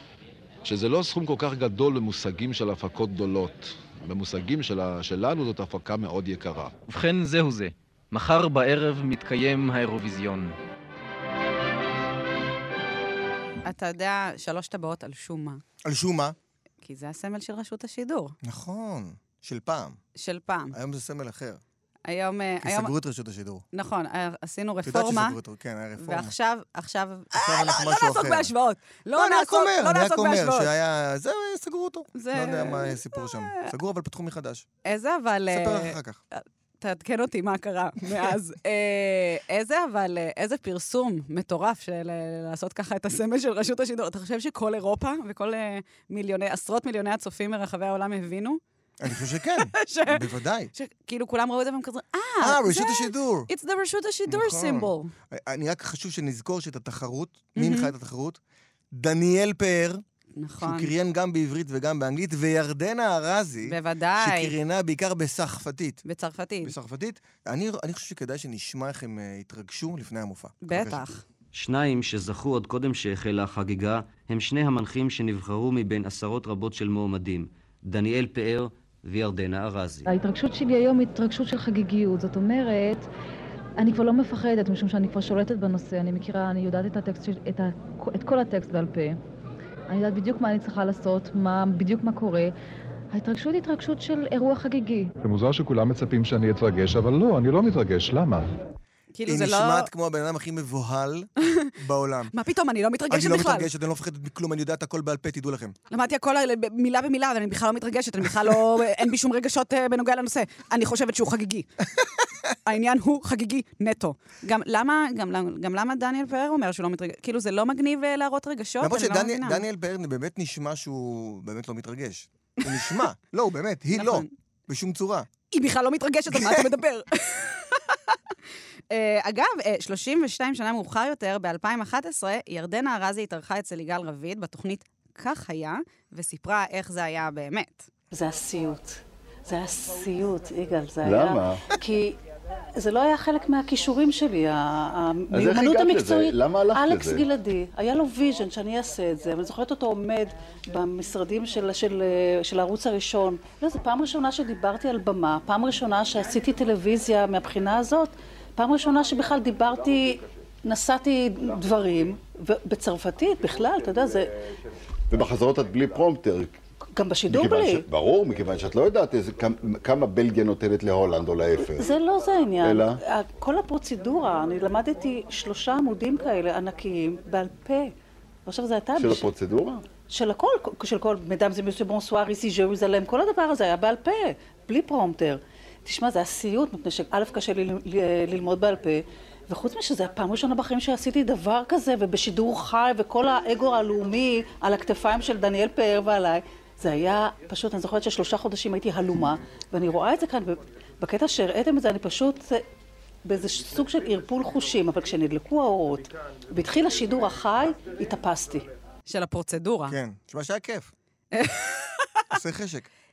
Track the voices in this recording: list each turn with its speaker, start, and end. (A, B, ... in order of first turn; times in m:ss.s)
0:00.6-0:06.7 A
0:06.9-0:10.5 B
0:13.6-0:15.6 C
0:15.8-0:16.4 D
0:16.8-0:18.3 C
0:18.4-0:20.0 D
0:20.2-0:20.7 C
0:20.7-0:21.6 D
0:22.0-0:22.9 C
0:22.6-0:23.6 D
0:23.7-0:25.4 C
0:24.8-0:26.3 D
0:26.0-0:30.7 C
0:27.3-0:28.5 D
0:29.1-0:34.6 D
0:32.1-0:33.7 C
0:34.8-0:48.6 C
0:35.5-0:36.2 D
0:49.0-0:50.7 D
0:49.6-0:50.2 C
0:50.7-0:55.1 C
0:52.4-0:53.5 D
0:54.3-0:58.4 D
0:57.6-0:57.9 C
0:58.9-1:00.0 D
1:00.4-1:00.9 C
1:00.6-1:06.0 D
1:03.6-1:04.5 C
1:06.0-1:06.7 C
1:06.6-1:11.0 D
1:10.6-1:11.2 C
1:11.5-1:20.1 E
1:20.1-1:23.1 F
1:23.8-1:29.2 F
1:29.9-1:32.5 F
1:33.1-1:35.1 F
1:39.1-1:39.9 C
1:39.2-1:42.3 D
1:42.3-1:43.7 C
1:43.1-1:45.8 D
1:45.9-1:51.7 C
1:52.6-1:59.6 C
1:58.8-2:05.3 D
2:03.9-2:04.3 C
2:05.5-2:08.2 C
2:06.3-2:06.7 D
2:08.9-2:17.9 C
2:18.1-2:22.2 G
2:21.0-2:21.6 H
2:22.8-2:44.3 G
2:25.3-2:27.2 H
2:45.1-2:46.5 H
2:46.9-2:47.9 G
2:47.3-2:51.8 H
2:51.7-2:57.9 G
2:52.6-2:53.0 H
2:58.4-3:22.6 G
2:59.0-2:59.8 H
3:23.2-3:28.6 G
3:29.1-3:30.0 C
3:29.9-3:30.9 D
3:31.3-3:32.2 C
3:32.3-3:32.9 D